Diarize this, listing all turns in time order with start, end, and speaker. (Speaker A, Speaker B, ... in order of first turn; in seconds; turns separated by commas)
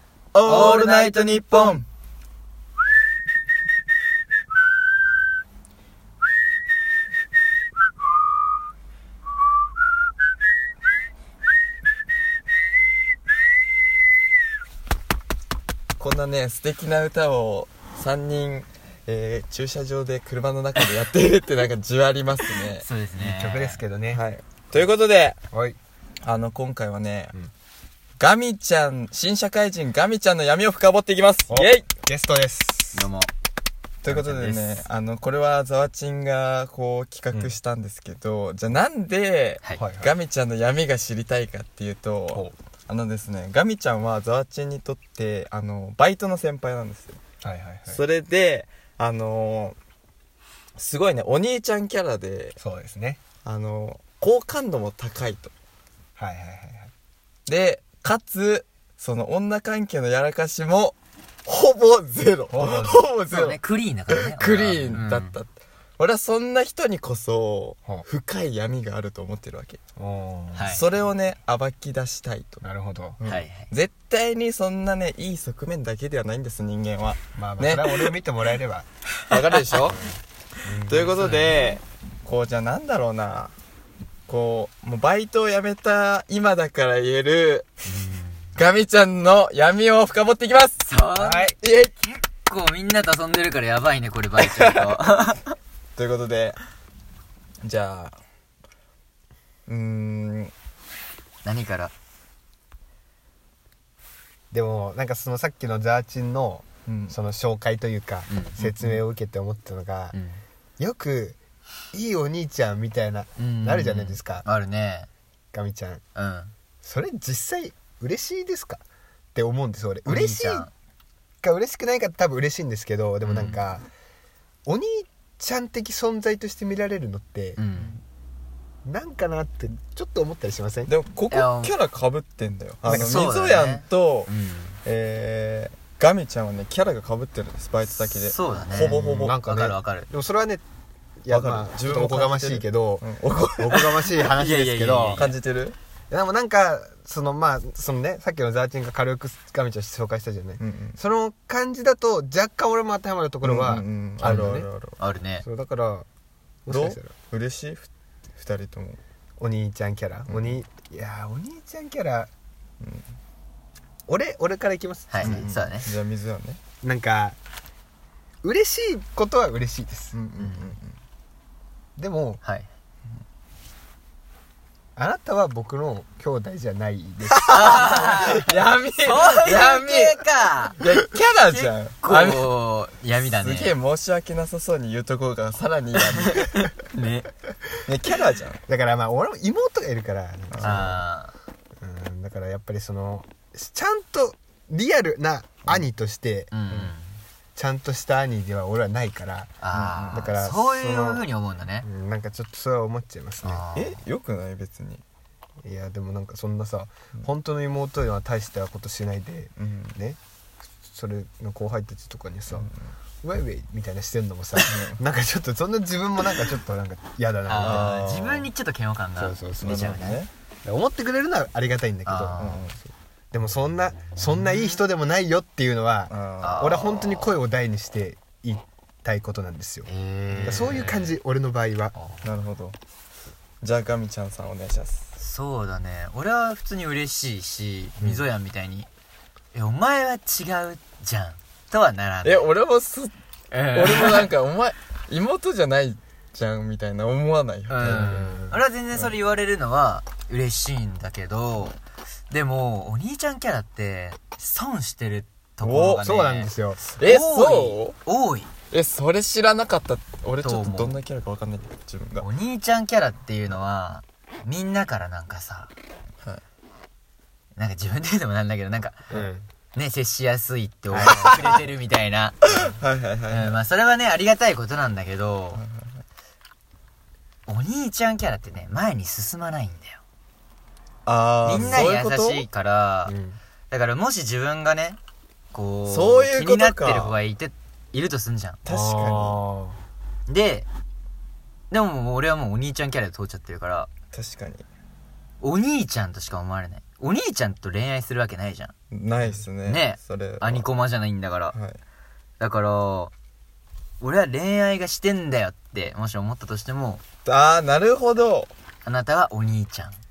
Speaker A: 0.3-1.9, Speaker B: 0.4-1.8, Speaker A: 16.0-22.9, Speaker B: 22.7-23.8, Speaker C: 23.2-24.2, Speaker A: 24.1-25.4, Speaker C: 25.5-25.8, Speaker A: 26.2-27.4, Speaker A: 28.2-31.9, Speaker C: 31.5-33.1, Speaker B: 32.9-33.3, Speaker A: 34.0-47.2, Speaker B: 34.1-34.9, Speaker C: 39.8-40.1, Speaker C: 47.4-48.0, Speaker A: 47.9-49.8, Speaker A: 50.8-52.6, Speaker C: 52.6-53.2, Speaker A: 53.5-55.5, Speaker C: 56.2-56.9, Speaker A: 57.5-63.6, Speaker C: 62.5-63.1, Speaker B: 63.3-65.4, Speaker A: 64.1-69.8, Speaker C: 70.0-70.7, Speaker B: 70.5-70.9, Speaker A: 70.7-72.6, Speaker C: 72.6-73.2, Speaker A: 73.2-78.1, Speaker B: 73.2-73.7, Speaker C: 77.4-78.9, Speaker A: 79.3-80.0, Speaker B: 79.3-79.6, Speaker C: 79.8-81.2, Speaker A: 80.9-83.5, Speaker B: 81.1-81.7, Speaker A: 84.3-87.7, Speaker B: 87.9-88.5, Speaker A: 88.6-90.8, Speaker B: 90.8-95.6, Speaker C: 91.2-91.5, Speaker A: 91.6-91.9, Speaker A: 94.4-94.8, Speaker A: 96.0-96.6, Speaker A: 97.6-98.2, Speaker A: 99.7-100.5, Speaker B: 101.4-101.9, Speaker C: 104.5-110.2, Speaker A: 106.9-107.2, Speaker B: 108.3-109.0, Speaker B: 110.1-110.4, Speaker C: 110.8-111.4, Speaker C: 111.9-114.5, Speaker B: 113.4-115.1, Speaker C: 115.5-116.0, Speaker B: 116.2-116.5, Speaker C: 116.8-118.8, Speaker C: 119.3-120.7, Speaker B: 120.1-120.7, Speaker C: 121.4-123.9, Speaker B: 123.2-123.6, Speaker C: 124.7-127.6, Speaker B: 127.6-128.0, Speaker A: 127.7-128.0, Speaker C: 128.8-130.9, Speaker A: 130.9-134.3, Speaker B: 131.3-131.7, Speaker C: 132.8-133.3, Speaker B: 132.9-134.8, Speaker A: 134.8-139.4, Speaker B: 137.9-140.1, Speaker C: 138.9-140.6, Speaker C: 141.2-145.2, Speaker A: 141.3-143.8, Speaker B: 144.0-145.4, Speaker A: 145.1-145.8, Speaker C: 146.1-154.7, Speaker A: 150.6-151.0, Speaker A: 153.4-155.0, Speaker B: 154.2-155.4, Speaker C: 155.4-156.1, Speaker C: 156.7-157.1, Speaker A: 156.7-159.0, Speaker C: 159.4-162.3, Speaker A: 160.3-160.6, Speaker A: 162.8-163.1, Speaker C: 164.1-165.5, Speaker B: 165.1-165.9, Speaker A: 165.2-166.6, Speaker C: 166.8-167.4, Speaker C: 168.4-170.2, Speaker A: 170.1-170.9, Speaker B: 170.4-170.7, Speaker C: 172.0-172.4, Speaker B: 172.4-172.7, Speaker C: 175.0-178.3, Speaker A: 177.4-180.2, Speaker B: 177.5-180.8, Speaker A: 180.8-182.5, Speaker B: 181.4-183.8, Speaker A: 183.2-186.7, Speaker B: 186.1-187.3, Speaker A: 187.8-188.6, Speaker C: 188.7-191.0, Speaker A: 190.5-190.9, Speaker B: 190.6-191.3, Speaker C: 191.8-196.9, Speaker B: 196.5-197.2, Speaker C: 197.6-199.6, Speaker B: 199.6-201.9, Speaker A: 199.7-200.3, Speaker C: 200.1-201.2, Speaker C: 201.8-203.6, Speaker B: 203.4-204.0, Speaker A: 203.7-205.0, Speaker C: 205.6-210.2, Speaker A: 209.6-210.0, Speaker C: 210.9-212.7, Speaker A: 212.5-212.9, Speaker C: 213.2-218.0, Speaker A: 214.7-215.0, Speaker B: 217.5-220.2, Speaker A: 217.6-218.5, Speaker C: 219.2-220.0, Speaker A: 219.6-220.3, Speaker C: 220.7-229.9, Speaker B: 222.1-222.7, Speaker A: 222.4-222.8, Speaker B: 224.2-224.8, Speaker A: 226.1-226.7, Speaker B: 226.4-227.4, Speaker B: 229.9-231.1, Speaker A: 230.3-230.9, Speaker C: 230.4-231.9, Speaker B: 231.9-232.3, Speaker A: 232.2-232.8, Speaker A: 233.6-235.1, Speaker B: 235.2-238.9, Speaker C: 238.0-238.2, Speaker B: 239.5-242.5, Speaker A: 242.2-243.1, Speaker B: 243.5-244.3, Speaker A: 243.7-248.1, Speaker B: 247.7-251.8, Speaker C: 247.8-248.6, Speaker B: 252.3-258.5, Speaker A: 255.6-256.1, Speaker C: 256.0-256.8, Speaker A: 257.0-258.0, Speaker A: 258.7-262.3, Speaker B: 260.4-261.0, Speaker B: 262.2-265.7, Speaker B: 267.6-269.1, Speaker C: 269.1-269.5, Speaker B: 269.7-272.8, Speaker A: 270.9-271.5, Speaker A: 272.4-273.6, Speaker B: 273.3-275.6, Speaker A: 275.6-275.9, Speaker B: 277.5-280.0, Speaker A: 281.1-282.5, Speaker B: 281.4-283.2, Speaker C: 283.1-283.4, Speaker B: 283.7-285.0, Speaker B: 285.5-288.6, Speaker A: 285.9-287.2, Speaker A: 288.6-289.4, Speaker C: 288.7-289.8, Speaker B: 290.3-290.7, Speaker B: 291.7-293.9, Speaker A: 294.1-294.7, Speaker B: 295.4-298.7, Speaker A: 298.9-300.7, Speaker B: 299.6-301.6, Speaker A: 301.5-301.8, Speaker B: 302.4-303.1, Speaker B: 304.0-307.0, Speaker A: 307.3-308.5, Speaker B: 308.9-310.0